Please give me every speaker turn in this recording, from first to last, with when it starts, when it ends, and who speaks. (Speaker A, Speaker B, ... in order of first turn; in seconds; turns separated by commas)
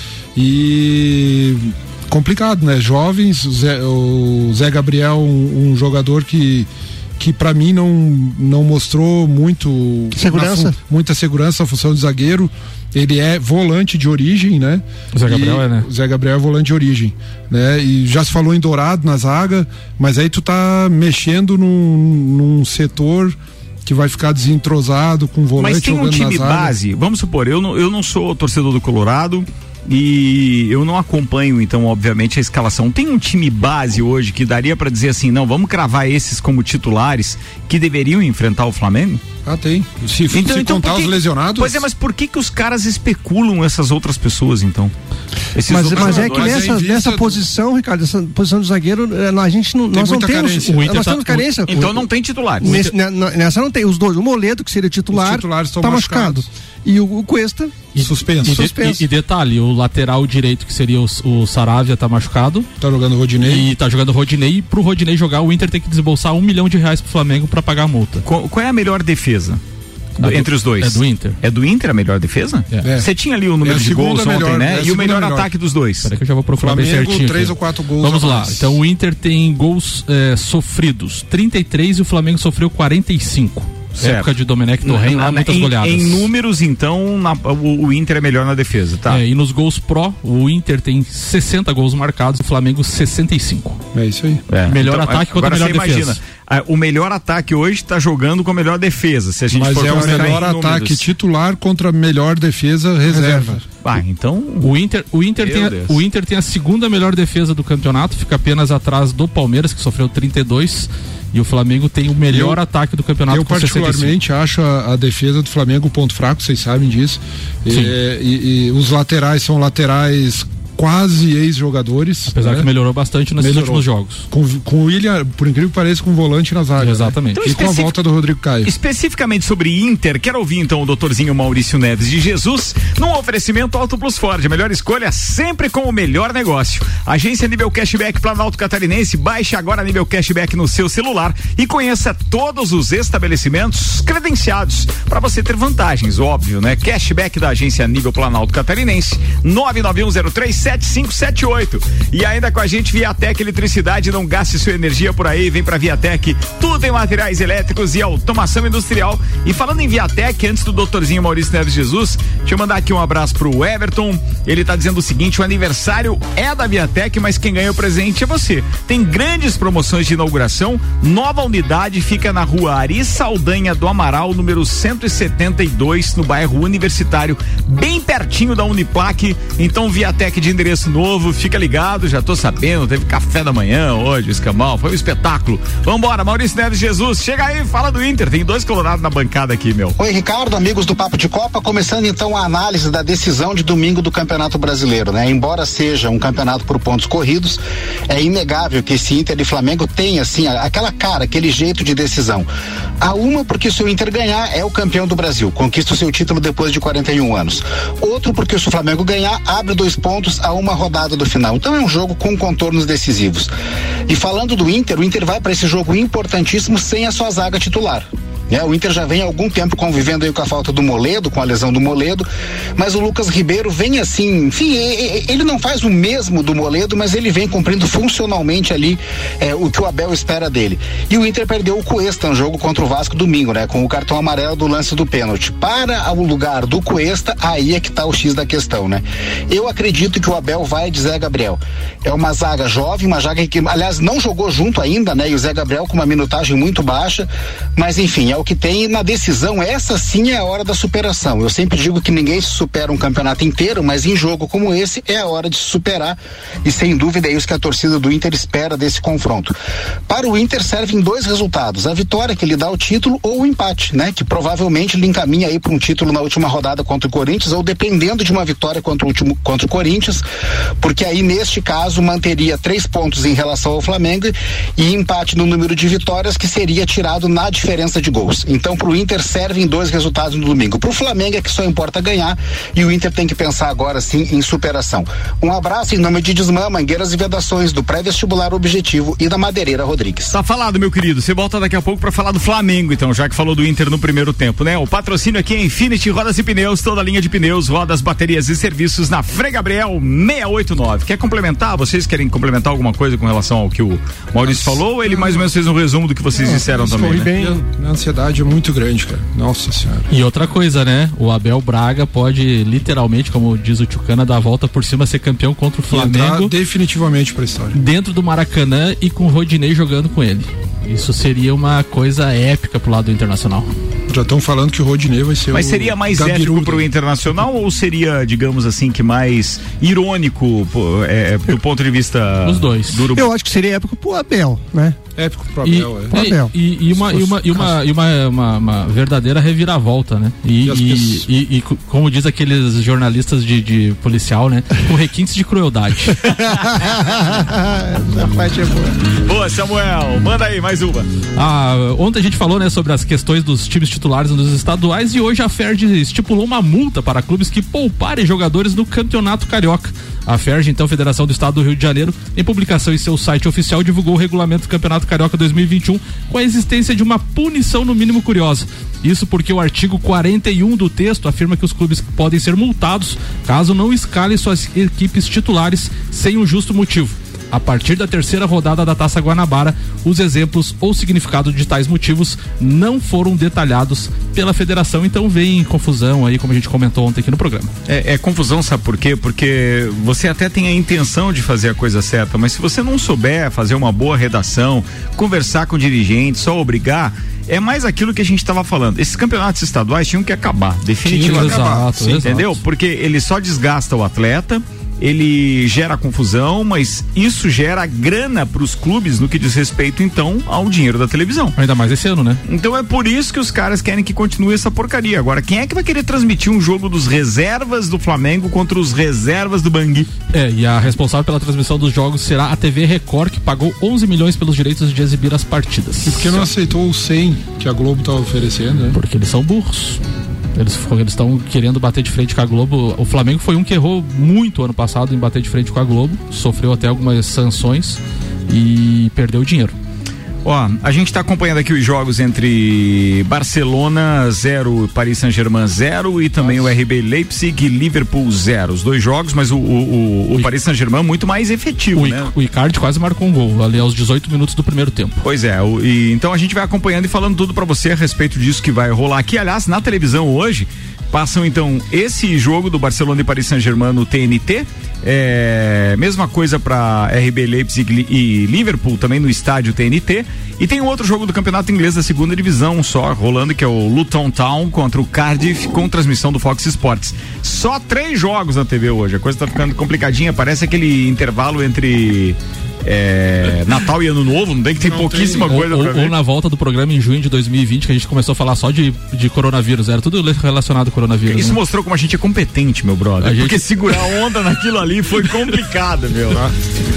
Speaker A: 0.3-26.7, Speaker B: 10.1-10.7, Speaker C: 15.1-15.9, Speaker D: 25.6-39.2, Speaker A: 39.4-41.8, Speaker D: 40.3-44.9, Speaker D: 45.5-46.7, Speaker B: 45.7-51.8, Speaker A: 45.7-47.4, Speaker A: 49.9-51.0, Speaker C: 50.7-52.0, Speaker D: 51.7-52.7, Speaker C: 52.6-52.9, Speaker B: 52.6-57.9, Speaker A: 55.1-56.5, Speaker C: 57.9-62.7, Speaker A: 58.0-58.6, Speaker B: 58.5-59.0, Speaker A: 62.8-63.7, Speaker C: 63.4-68.2, Speaker D: 68.2-69.6, Speaker C: 70.2-71.4, Speaker D: 70.2-76.1, Speaker A: 72.8-73.1, Speaker A: 73.6-75.5, Speaker C: 76.0-86.3, Speaker A: 76.6-78.8, Speaker D: 84.0-89.2, Speaker C: 89.1-93.8, Speaker A: 93.9-94.4, Speaker D: 94.5-101.1, Speaker C: 94.7-96.2, Speaker A: 99.5-103.6, Speaker B: 103.1-103.5, Speaker D: 103.8-104.7, Speaker C: 104.6-114.1, Speaker D: 105.4-106.0, Speaker A: 112.3-112.6, Speaker A: 113.3-122.7, Speaker C: 117.7-117.9, Speaker C: 122.3-124.3, Speaker A: 123.4-128.7, Speaker C: 126.8-127.5, Speaker D: 127.4-127.9, Speaker D: 128.6-189.9, Speaker E: 190.0-202.5, Speaker E: 203.0-213.5, Speaker E: 214.1-222.2, Speaker E: 222.8-259.5, Speaker E: 260.1-270.2, Speaker E: 270.8-290.3, Speaker D: 290.3-307.3, Speaker A: 304.4-305.5, Speaker B: 306.4-307.6, Speaker A: 306.4-310.1, Speaker C: 310.1-316.5, Speaker A: 315.9-317.8, Speaker C: 317.7-323.7, Speaker A: 324.1-326.9, Speaker D: 325.5-333.3, Speaker C: 332.4-333.1, Speaker B: 333.1-335.0, Speaker A: 335.1-336.2, Speaker C: 335.6-346.3, Speaker B: 336.1-336.5, Speaker A: 336.9-337.7, Speaker A: 340.6-341.2, Speaker B: 346.4-348.9, Speaker D: 349.2-351.1, Speaker C: 351.4-387.7, Speaker D: 387.9-411.5, Speaker A: 401.0-402.2, Speaker C: 401.2-402.6, Speaker C: 411.6-412.4, Speaker D: 412.4-420.1, Speaker C: 420.3-426.5, Speaker A: 426.0-429.0, Speaker C: 428.9-430.0, Speaker C: 430.5-439.7, Speaker D: 440.4-452.3, Speaker C: 451.9-455.2, Speaker D: 455.2-486.1, Speaker A: 484.8-485.6, Speaker C: 485.5-491.6, Speaker D: 491.3-496.5, Speaker C: 493.2-493.6